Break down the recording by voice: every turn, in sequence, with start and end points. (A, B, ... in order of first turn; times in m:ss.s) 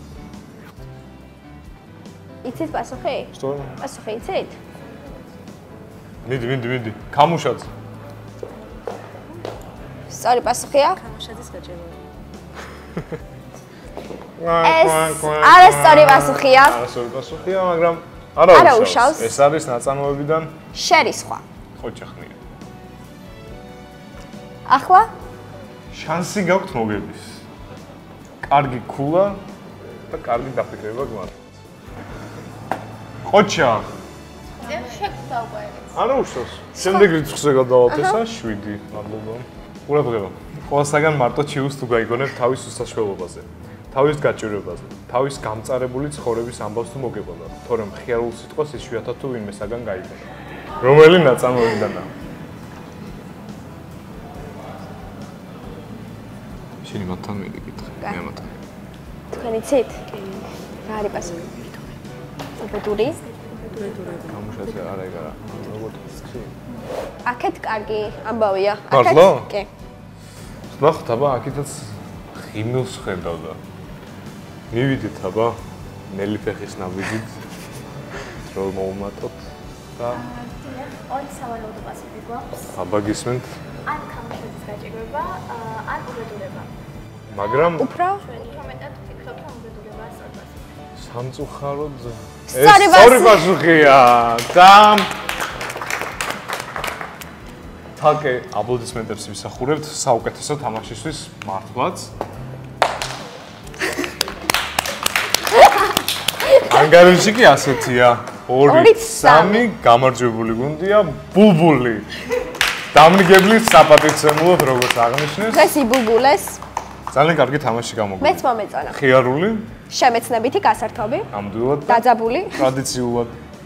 0:02.4-0:04.6 A
0:03.3-0:03.7 B
0:06.2-0:07.7 B
0:10.1-0:11.0 A
0:11.0-0:12.0 C
0:14.4-0:20.5 B
0:14.6-0:16.8 A
0:18.5-0:19.4 A
0:20.7-0:21.4 A
0:21.8-0:22.4 B
0:24.7-0:25.1 A
0:25.9-0:27.4 B
0:28.4-0:29.4 B
0:30.1-0:31.5 B
0:33.2-0:33.9 B
0:34.6-0:36.0 C
0:35.9-0:50.3 B
0:36.8-0:37.1 A
0:37.9-0:38.2 A
0:50.8-0:52.1 B
0:56.8-0:58.5 B
0:59.3-1:01.9 A
1:02.6-1:03.2 A
1:03.3-1:04.3 C
1:04.3-1:06.6 B
1:07.2-1:09.7 A
1:08.9-1:09.5 B
1:10.7-1:13.6 B
1:14.7-1:15.6 B
1:16.1-1:17.3 B
1:18.4-1:19.4 B
1:20.0-1:20.3 B
1:20.1-1:22.8 C
1:22.7-1:23.5 B
1:23.8-1:26.7 C
1:27.3-1:27.9 B
1:27.8-1:28.2 A
1:28.2-1:30.6 C
1:31.0-1:35.1 B
1:32.5-1:33.6 A
1:38.0-1:42.1 B
1:46.6-1:52.1 B
1:48.6-1:49.7 A
1:52.9-1:55.7 B
1:55.5-1:56.6 A
1:57.1-1:59.7 B
1:58.2-1:59.0 A
1:59.9-2:01.3 A
2:01.3-2:03.4 B
2:01.8-2:02.7 A